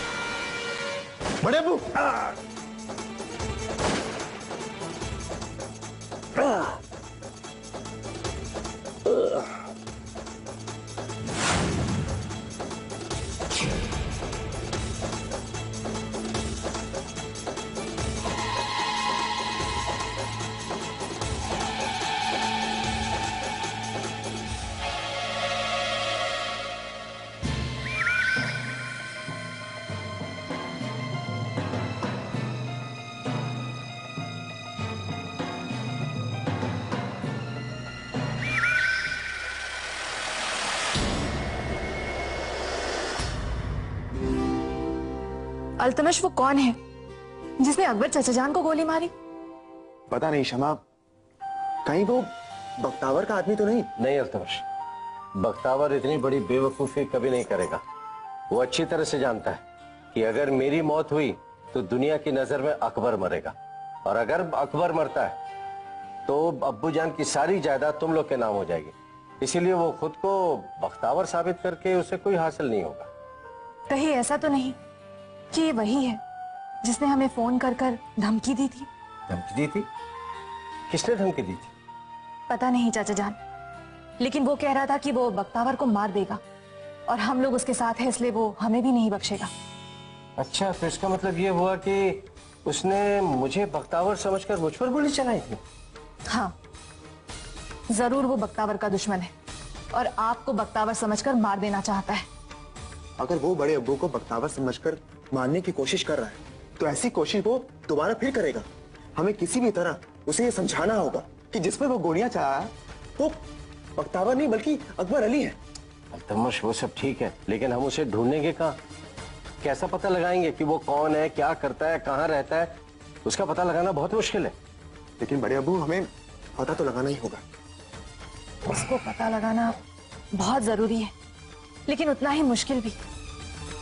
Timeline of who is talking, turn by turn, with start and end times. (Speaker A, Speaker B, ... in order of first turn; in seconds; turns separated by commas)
Speaker A: 1.4-2.2, Speaker B: 45.8-46.8, Speaker B: 47.6-49.1, Speaker A: 50.1-50.8, Speaker A: 51.9-53.9, Speaker C: 54.0-54.6, Speaker C: 55.3-57.8, Speaker C: 58.5-59.6, Speaker C: 60.1-65.4, Speaker C: 66.2-73.1, Speaker B: 73.9-74.8, Speaker B: 75.5-76.2, Speaker B: 76.8-78.9, Speaker C: 79.3-79.9, Speaker C: 80.9-81.7, Speaker B: 82.5-83.4, Speaker B: 84.2-86.4, Speaker B: 87.1-89.5, Speaker C: 90.4-95.6, Speaker B: 96.3-96.5, Speaker B: 97.9-99.3, Speaker B: 99.9-102.2, Speaker A: 103.2-108.6, Speaker A: 109.2-113.4, Speaker A: 114.0-115.6, Speaker C: 116.1-118.8, Speaker C: 119.6-122.7, Speaker C: 123.2-124.5, Speaker A: 125.2-127.4, Speaker B: 128.7-129.7, Speaker B: 130.3-131.1, Speaker B: 131.9-133.0